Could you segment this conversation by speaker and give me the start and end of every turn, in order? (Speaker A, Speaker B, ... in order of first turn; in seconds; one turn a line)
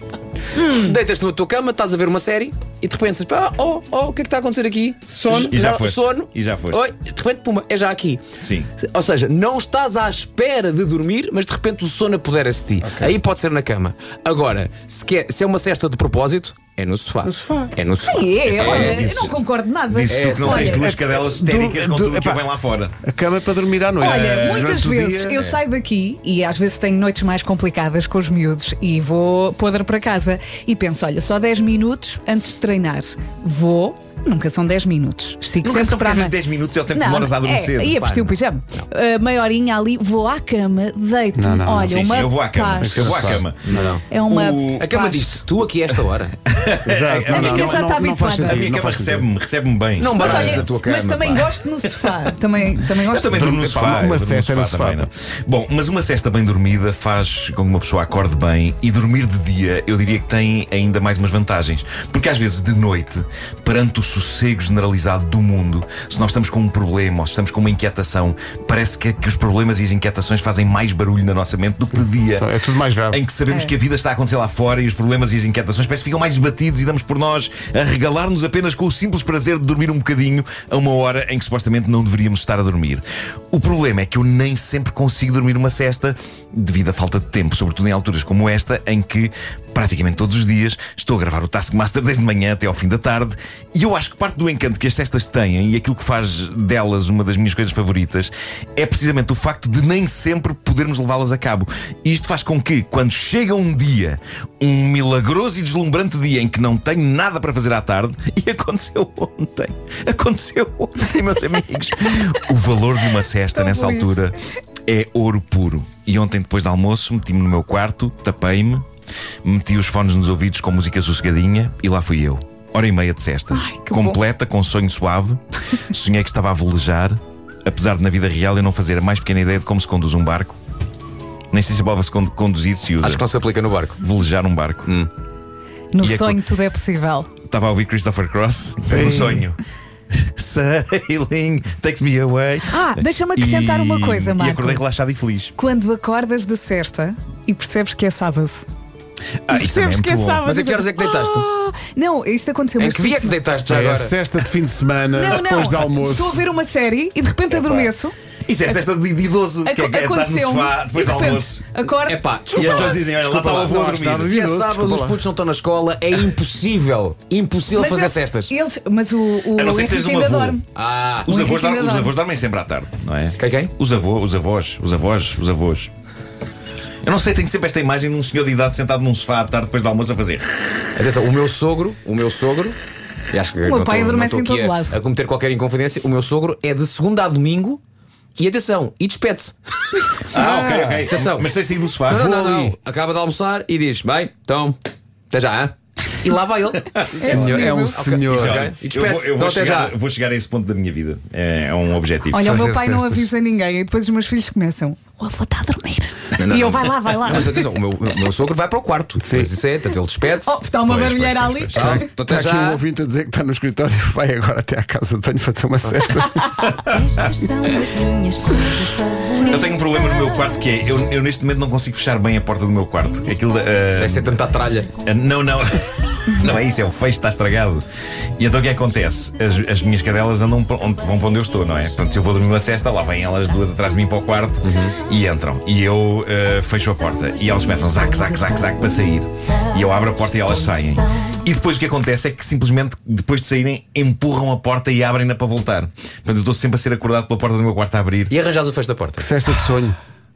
Speaker A: 0.5-8.2
Speaker B: 5.2-5.4
Speaker C: 5.3-6.8
Speaker C: 8.4-8.7
Speaker A: 8.8-19.3
Speaker B: 12.8-13.1
Speaker B: 17.2-17.7
Speaker D: 18.0-20.9
Speaker C: 18.5-19.4
Speaker C: 19.9-22.9
Speaker A: 20.1-20.8
Speaker B: 20.8-22.4
Speaker B: 23.0-25.4
Speaker C: 24.0-24.8
Speaker D: 24.0-36.3
Speaker C: 35.6-38.0
Speaker D: 36.9-43.0
Speaker A: 38.0-38.8
Speaker B: 41.3-41.9
Speaker C: 41.8-44.9
Speaker B: 42.7-43.9
Speaker A: 42.9-44.0
Speaker D: 43.9-45.5
Speaker A: 44.7-46.4
Speaker C: 46.5-50.7
Speaker B: 46.9-49.3
Speaker D: 47.2-48.6
Speaker A: 50.0-51.6
Speaker D: 50.2-53.3
Speaker C: 51.8-52.1
Speaker C: 53.0-72.5
Speaker B: 53.2-55.1
Speaker B: 72.0-73.2
Speaker C: 73.1-118.8
Speaker D: 113.5-114.2
Speaker C: 119.4-130.6
Speaker D: 123.5-124.2
Speaker C: 131.5-133.2
Speaker A: 133.0-134.0
Speaker C: 134.0-134.9
Speaker D: 135.9-137.3
Speaker C: 136.0-136.4
Speaker C: 137.4-139.6
Speaker B: 138.9-139.4
Speaker C: 140.1-145.5
Speaker D: 142.7-144.8
Speaker D: 145.6-148.7
Speaker C: 149.5-150.4
Speaker D: 149.5-153.4
Speaker A: 150.4-151.5
Speaker A: 152.8-154.2
Speaker B: 153.7-156.4
Speaker D: 155.1-158.1
Speaker A: 157.5-157.9
Speaker C: 158.5-161.6
Speaker D: 159.6-163.1
Speaker A: 162.1-168.5
Speaker C: 162.5-164.3
Speaker B: 162.6-162.9
Speaker B: 163.6-165.2
Speaker D: 167.7-170.6
Speaker C: 169.5-170.6
Speaker A: 170.7-171.3
Speaker D: 171.2-172.1
Speaker C: 171.3-175.9
Speaker A: 173.4-173.7
Speaker C: 177.0-180.8
Speaker A: 180.9-182.8
Speaker A: 183.3-187.8
Speaker D: 183.6-185.0
Speaker A: 188.3-191.5
Speaker C: 190.3-192.3
Speaker A: 192.1-194.8
Speaker B: 192.2-192.7
Speaker A: 195.3-199.9
Speaker C: 196.9-197.3
Speaker D: 197.2-198.1
Speaker B: 197.2-198.6
Speaker C: 198.2-202.5
Speaker B: 202.3-203.3
Speaker D: 202.3-207.7
Speaker A: 206.4-212.8
Speaker B: 209.2-209.5
Speaker D: 210.3-212.2
Speaker B: 211.7-217.3
Speaker D: 216.1-216.5
Speaker E: 216.8-220.0
Speaker C: 219.4-224.4
Speaker A: 223.9-224.9
Speaker C: 225.0-227.8
Speaker C: 228.4-248.3
Speaker A: 234.6-235.0
Speaker E: 237.7-237.9
Speaker A: 248.3-249.3
Speaker B: 249.2-250.0